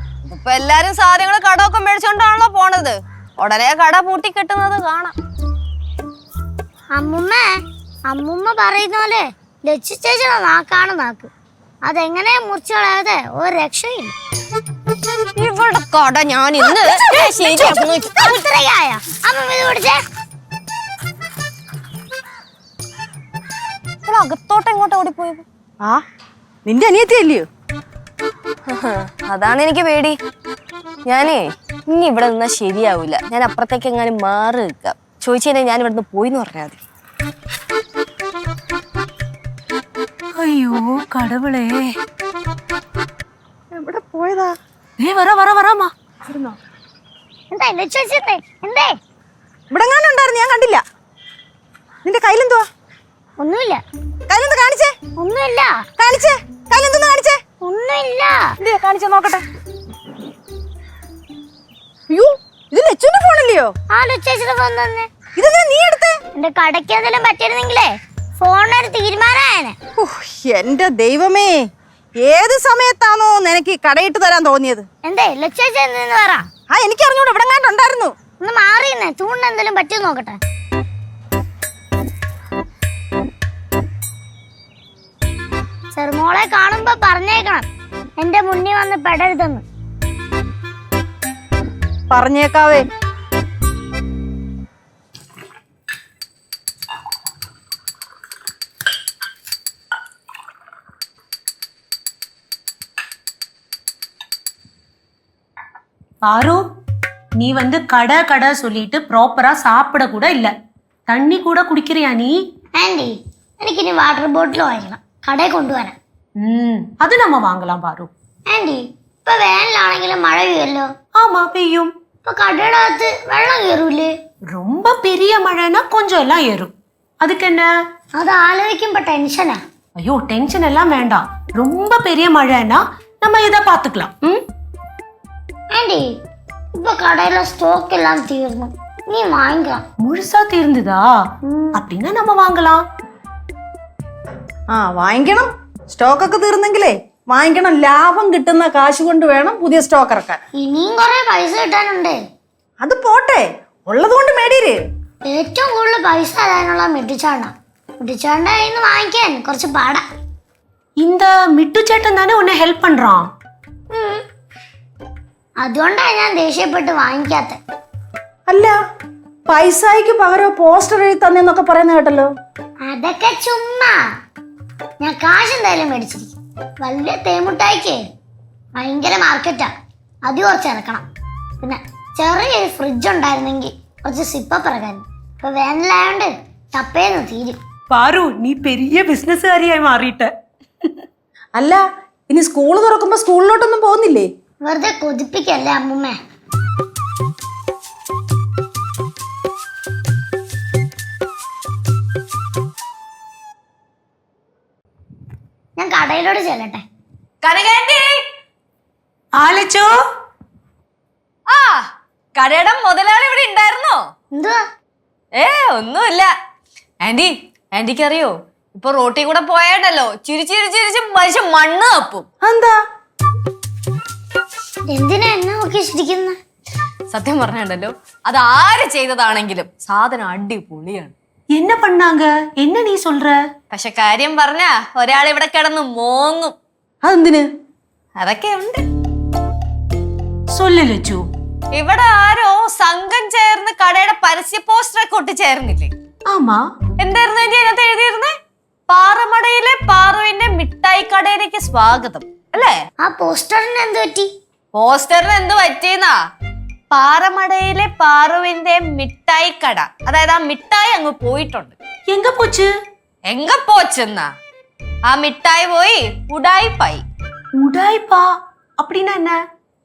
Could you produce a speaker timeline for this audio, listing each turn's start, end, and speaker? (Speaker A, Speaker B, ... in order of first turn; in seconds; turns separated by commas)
Speaker A: 0.2-5.1, Speaker B: 6.9-7.5, Speaker B: 8.1-11.3, Speaker B: 11.8-14.1, Speaker A: 15.3-18.2, Speaker C: 17.0-17.8, Speaker B: 17.5-20.0, Speaker A: 24.1-25.4, Speaker C: 26.6-27.4, Speaker A: 28.7-30.2, Speaker A: 31.1-36.8, Speaker D: 40.4-42.0, Speaker C: 43.7-44.5, Speaker D: 45.0-45.9, Speaker B: 47.5-48.9, Speaker C: 49.7-50.8, Speaker C: 52.0-52.6, Speaker B: 53.4-53.8, Speaker C: 54.3-54.9, Speaker B: 55.2-55.8, Speaker C: 56.0-57.4, Speaker B: 57.6-58.5, Speaker C: 58.6-59.4, Speaker C: 62.1-63.7, Speaker B: 63.9-65.1, Speaker C: 65.4-66.2, Speaker B: 66.3-69.8, Speaker C: 70.0-71.7, Speaker C: 72.2-74.8, Speaker B: 75.0-76.5, Speaker C: 76.7-78.1, Speaker B: 78.4-80.4, Speaker B: 85.9-87.7, Speaker B: 88.2-89.6, Speaker C: 92.1-92.9, Speaker D: 106.2-106.6, Speaker D: 107.4-110.5, Speaker D: 111.1-112.3, Speaker B: 112.8-116.0, Speaker D: 116.4-118.1, Speaker B: 118.5-120.9, Speaker D: 121.2-121.9, Speaker B: 122.2-124.1, Speaker D: 124.5-127.7, Speaker B: 128.2-129.6, Speaker D: 130.0-134.4, Speaker B: 135.7-136.1, Speaker B: 136.7-139.8, Speaker D: 140.0-141.1, Speaker B: 141.5-141.8, Speaker D: 141.7-142.8, Speaker C: 144.7-150.4, Speaker B: 150.6-152.2, Speaker C: 152.8-154.8, Speaker B: 155.2-160.0, Speaker D: 161.0-163.3, Speaker B: 163.9-164.2, Speaker B: 165.6-167.6, Speaker C: 168.5-168.8, Speaker C: 169.5-172.3, Speaker B: 172.8-174.0, Speaker B: 175.0-178.0, Speaker B: 178.8-179.7, Speaker B: 180.2-181.1, Speaker B: 181.6-187.6, Speaker D: 187.9-190.3, Speaker C: 191.5-194.3, Speaker B: 194.6-196.2, Speaker B: 205.8-206.8, Speaker A: 207.4-208.2, Speaker D: 209.3-209.9, Speaker A: 211.5-211.8, Speaker A: 212.3-214.0, Speaker B: 214.3-214.6, Speaker A: 215.3-216.3, Speaker A: 217.0-222.3, Speaker C: 222.4-222.8, Speaker B: 224.9-226.4, Speaker A: 227.1-231.1, Speaker D: 231.5-233.4, Speaker A: 233.7-236.5, Speaker C: 237.0-237.4, Speaker A: 238.2-238.8, Speaker D: 240.5-241.2, Speaker A: 241.7-245.9, Speaker D: 246.3-246.6, Speaker A: 247.0-248.3, Speaker A: 248.9-252.8, Speaker B: 253.0-254.3, Speaker A: 254.7-256.1, Speaker A: 256.9-261.7, Speaker D: 262.1-262.7, Speaker A: 263.3-264.3, Speaker A: 265.1-267.0, Speaker D: 267.6-269.4